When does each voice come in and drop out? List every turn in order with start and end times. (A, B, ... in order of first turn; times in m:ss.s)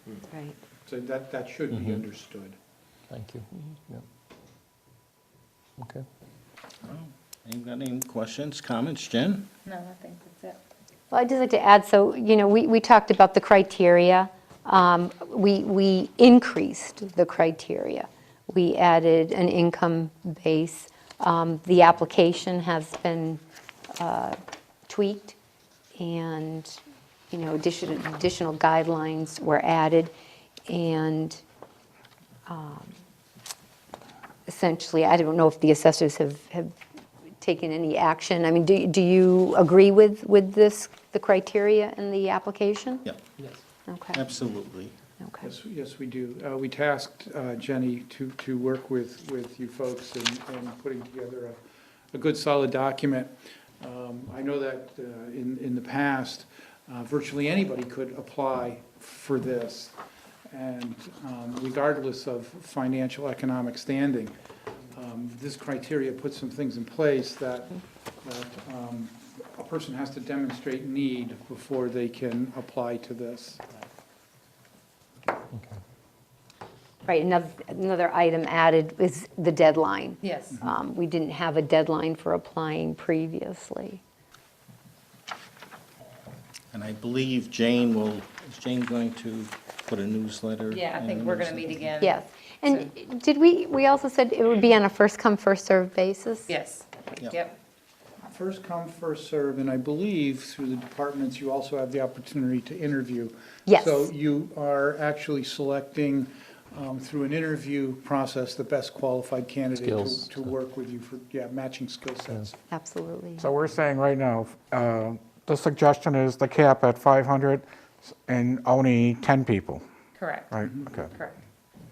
0:00.3-0:00.6 A
0:00.8-0:02.6 B
0:01.7-0:02.0 C
0:03.1-0:04.0 C
0:05.8-0:06.0 C
0:06.8-0:09.5 D
0:09.6-0:10.6 E
0:11.1-0:23.4 A
0:24.0-0:24.4 A
0:24.9-0:25.4 A
0:26.0-0:26.8 A
0:27.3-0:30.1 A
0:30.7-0:31.4 A
0:32.5-0:32.9 A
0:34.5-0:36.7 A
0:37.4-0:43.0 A
0:43.9-0:44.2 A
0:44.1-0:44.9 D
0:45.2-0:45.5 A
0:45.4-0:51.6 B
0:52.1-1:00.0 B
1:00.5-1:04.3 B
1:04.9-1:13.6 B
1:17.0-1:24.0 A
1:20.2-1:20.6 E
1:26.7-1:31.9 D
1:30.7-1:32.9 E
1:32.0-1:36.5 A
1:36.5-1:37.6 E
1:38.3-1:52.5 B
1:43.7-1:44.1 A
1:49.7-1:50.5 C
1:52.7-1:53.5 A
1:53.4-1:57.7 F
1:58.2-1:59.8 F
2:00.2-2:01.4 E
2:00.5-2:01.1 F